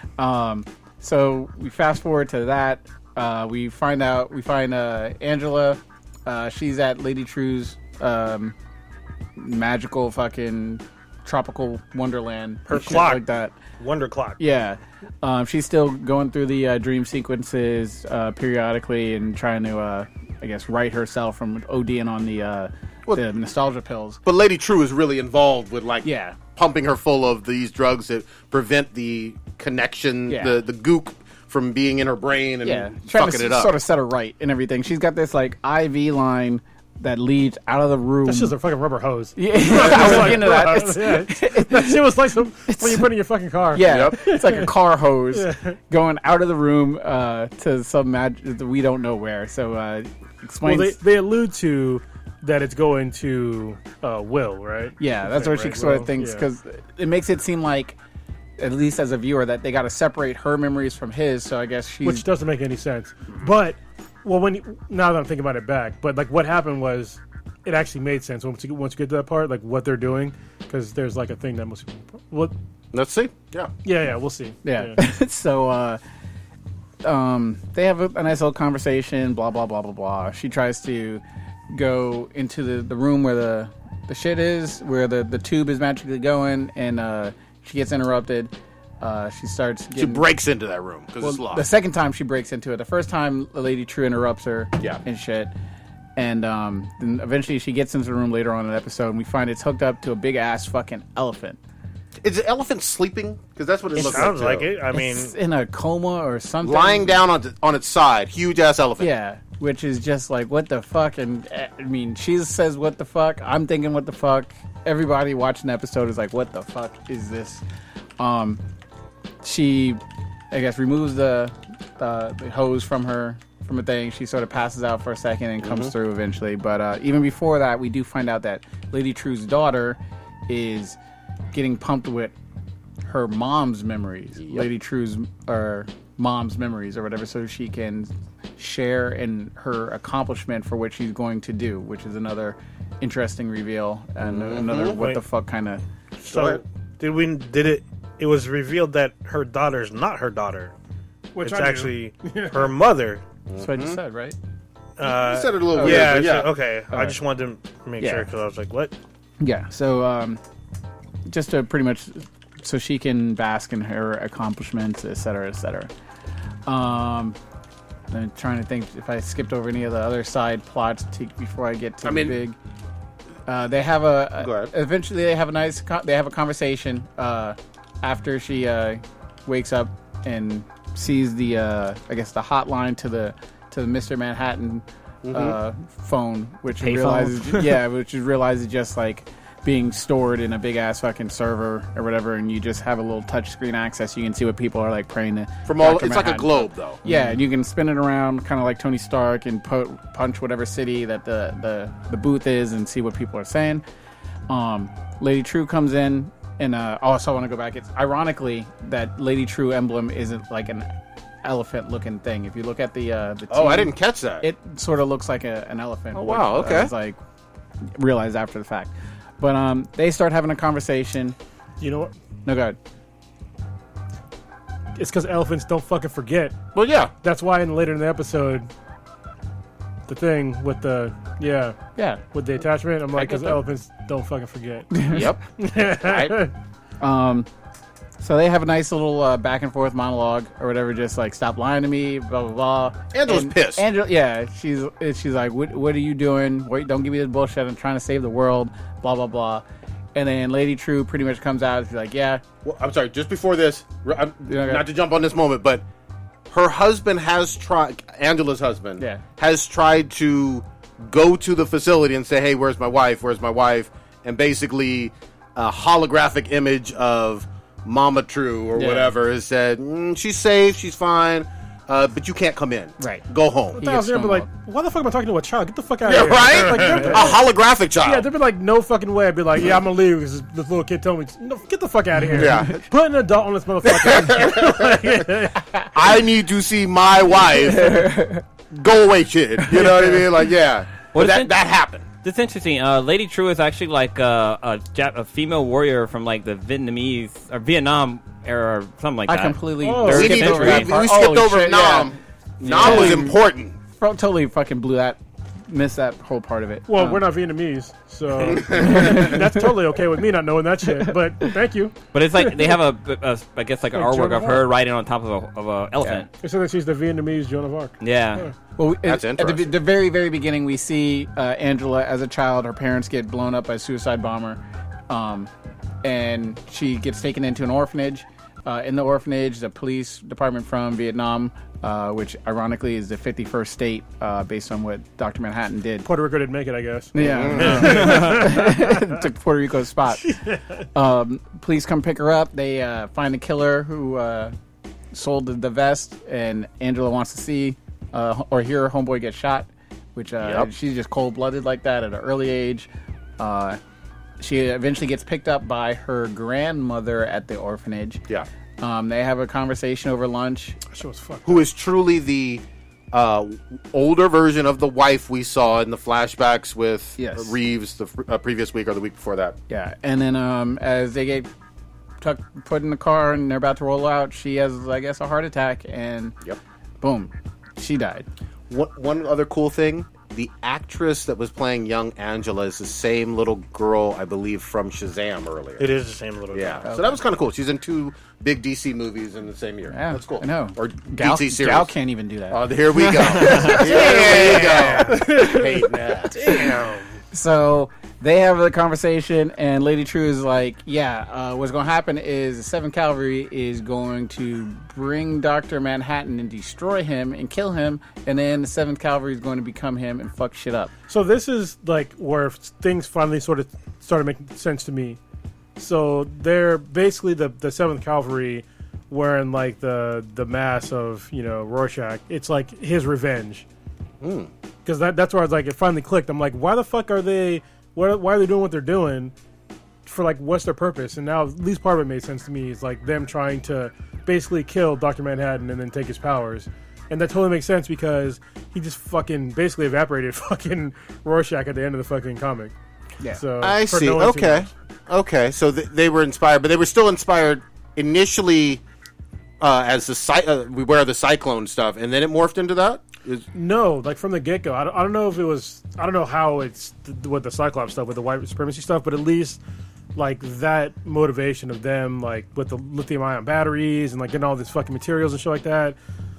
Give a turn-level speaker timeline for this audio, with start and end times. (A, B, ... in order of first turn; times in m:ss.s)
0:00.2-0:08.5 A
0:09.4-0:13.5 A
0:12.7-0:13.2 B
0:13.8-0:14.4 B
0:14.4-0:24.2 A
0:24.2-0:33.7 C
0:26.0-0:26.4 A
0:30.3-0:30.6 A
0:32.6-0:38.5 A
0:38.2-0:44.7 D
0:39.4-0:43.1 A
0:43.7-0:51.0 A
0:43.8-0:44.4 C
0:45.3-0:45.8 D
0:50.6-0:56.5 D
0:55.0-0:58.0 A
0:58.6-1:02.2 A
1:02.0-1:12.5 D
1:12.9-1:13.7 C
1:13.8-1:15.0 D
1:14.6-1:16.0 A
1:17.0-1:30.2 A
1:30.0-1:31.6 C
1:31.2-1:35.5 A
1:36.2-1:41.6 A
1:42.2-1:44.7 C
1:44.0-1:44.4 A
1:44.0-1:45.3 B
1:44.9-1:47.2 A
1:46.6-1:49.1 C
1:49.0-1:57.6 A
1:58.2-1:58.6 A
1:59.4-2:11.0 A
2:05.6-2:05.9 C
2:11.5-2:12.3 A
2:13.0-2:25.8 A
2:24.2-2:25.0 C
2:24.9-2:25.2 B
2:26.2-2:26.6 C
2:26.2-2:30.7 B
2:31.3-2:32.8 D
2:31.4-2:33.2 B
2:33.5-2:34.0 C
2:33.6-2:34.4 A
2:35.0-2:38.9 B
2:35.0-2:36.5 C
2:35.7-2:36.2 A
2:38.0-2:38.3 A
2:39.4-2:40.4 A
2:41.2-2:45.9 A
2:46.6-2:47.4 A
2:48.1-2:52.6 A
2:52.0-2:52.4 C
2:53.5-3:23.8 A
2:54.4-2:54.7 C
3:05.2-3:05.6 C
3:06.8-3:07.8 E
3:15.6-3:17.0 C
3:24.5-3:30.8 A
3:31.4-3:37.2 A
3:33.5-3:34.5 C
3:36.1-3:36.9 C
3:37.8-3:41.4 A
3:41.8-3:42.1 D
3:42.4-3:42.8 A
3:45.0-3:46.6 D
3:46.7-3:47.1 C
3:47.2-3:48.7 D
3:50.1-3:51.8 D
3:52.0-3:52.2 A
3:52.3-3:56.5 D
3:53.2-3:53.6 A
3:54.9-3:55.4 A
3:55.1-3:56.5 C
3:57.0-3:57.5 A
3:58.2-4:12.4 A
4:03.1-4:03.8 C
4:12.6-4:15.8 C
4:14.4-4:14.9 A
4:16.5-4:33.8 C
4:19.0-4:19.2 A
4:28.7-4:29.1 A
4:33.0-4:33.2 A
4:33.8-4:37.4 D
4:33.8-4:34.5 A
4:36.0-4:38.3 C
4:36.7-4:37.4 A
4:38.0-4:45.7 D
4:42.3-4:42.8 C
4:43.8-4:44.8 C
4:45.9-4:48.1 C
4:47.6-4:48.4 A
4:48.7-4:52.0 C
4:49.6-4:50.3 A
4:51.1-4:51.5 E
4:52.2-5:00.9 E
4:59.3-5:03.4 A
4:59.8-5:00.5 D
5:00.1-5:03.8 C
5:04.0-5:07.2 A
5:06.9-5:12.5 D
5:08.7-5:09.6 A
5:12.1-5:16.3 E
5:13.9-5:14.6 D
5:16.4-5:18.5 D
5:18.0-5:18.4 E
5:18.8-5:25.5 A
5:19.0-5:19.7 C
5:26.0-5:36.1 A
5:36.0-5:39.1 D
5:37.1-5:40.3 A
5:37.2-5:38.2 C
5:40.2-5:40.8 D
5:40.9-5:44.5 A
5:45.1-5:53.8 A
5:50.4-5:50.7 C
5:54.4-5:58.2 A
5:58.8-6:00.8 A
6:00.9-6:01.7 D
6:01.4-6:09.6 C
6:07.2-6:07.5 A
6:09.7-6:11.5 A
6:12.2-6:16.4 A
6:17.0-6:18.3 A
6:18.7-6:25.9 C
6:25.8-6:26.9 B
6:26.5-6:31.9 C
6:26.8-6:27.2 A
6:29.9-6:35.8 A
6:32.5-6:36.6 C
6:33.8-6:35.2 B
6:36.4-6:37.0 B
6:36.4-6:36.8 A
6:37.3-6:50.9 A
6:51.1-6:55.2 D
6:55.8-7:03.6 D
7:04.2-7:04.5 C
7:04.8-7:09.3 D
7:10.0-7:22.7 D
7:23.4-7:24.7 D
7:23.6-7:28.8 C
7:29.6-7:33.4 C
7:33.5-7:39.6 D
7:40.1-7:46.0 D